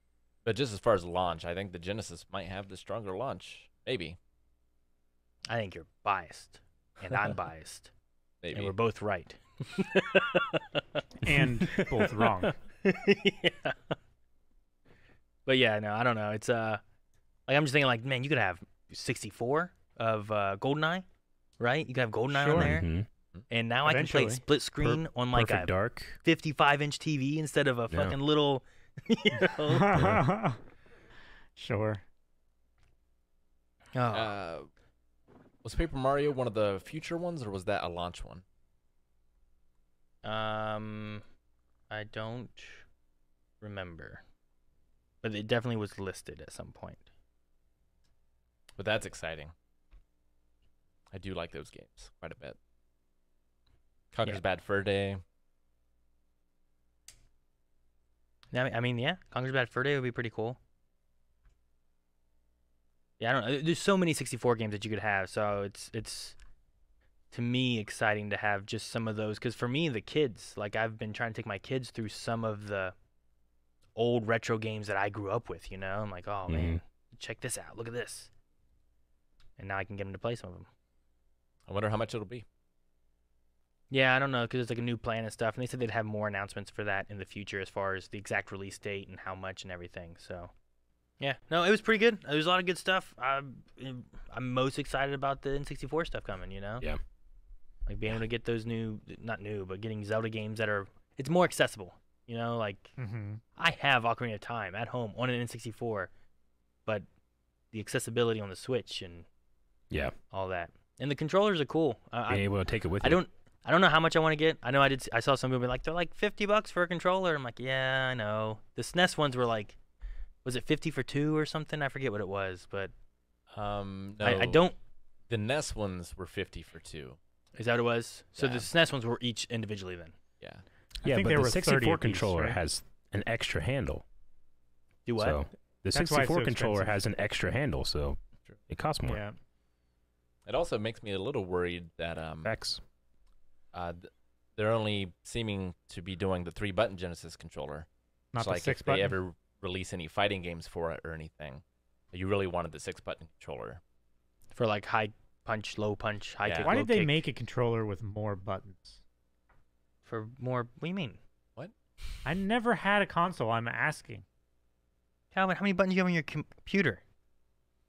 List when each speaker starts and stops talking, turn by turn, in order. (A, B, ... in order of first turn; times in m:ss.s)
0:00.4-0:04.2 A
0:05.5-0:07.9 B
0:08.4-0:08.8 A
0:08.5-0:10.8 B
0:11.2-0:12.5 C
0:12.8-0:14.0 B
0:15.5-0:16.8 B
0:17.5-0:21.0 B
0:21.6-0:22.9 B
0:22.3-0:22.8 C
0:22.5-0:23.1 D
0:23.5-0:29.9 B
0:23.8-0:24.4 C
0:24.8-0:26.2 D
0:27.9-0:28.2 D
0:29.7-0:30.6 C
0:29.9-0:30.2 D
0:31.6-0:32.0 C
0:34.0-0:34.4 B
0:34.1-0:34.7 A
0:35.6-0:38.4 A
0:40.2-0:41.2 B
0:41.9-0:42.8 B
0:43.6-0:44.2 B
0:45.2-0:47.1 B
0:48.8-0:49.5 A
0:51.1-0:52.6 A
0:54.1-0:55.2 A
0:58.5-1:00.6 B
1:03.2-1:06.4 B
1:07.3-1:13.0 B
1:14.0-1:18.3 B
1:16.5-1:16.8 D
1:19.6-1:20.7 B
1:21.7-1:22.5 A
1:23.9-1:30.5 B
1:31.2-1:36.9 B
1:37.9-1:43.0 B
1:43.0-1:43.4 C
1:43.6-1:46.1 B
1:47.7-1:49.3 B
1:50.3-1:59.8 B
1:52.3-1:53.2 D
2:00.4-2:02.9 B
2:03.5-2:04.7 A
2:04.2-2:04.8 B
2:05.3-2:07.2 A
2:07.6-2:10.2 B
2:08.4-2:08.7 A
2:10.4-2:10.6 A
2:11.0-2:12.6 C
2:11.0-2:14.0 D
2:15.1-2:15.4 B
2:15.2-2:18.2 D
2:15.9-2:17.1 C
2:18.7-2:19.2 D
2:19.0-2:19.4 C
2:20.5-2:22.5 A
2:22.4-2:22.8 D
2:23.7-2:33.8 A
2:28.3-2:29.2 C
2:34.5-2:37.2 B
2:36.4-2:36.8 A
2:36.6-2:39.0 C
2:40.1-2:41.2 B
2:42.2-2:44.2 C
2:45.3-2:47.0 B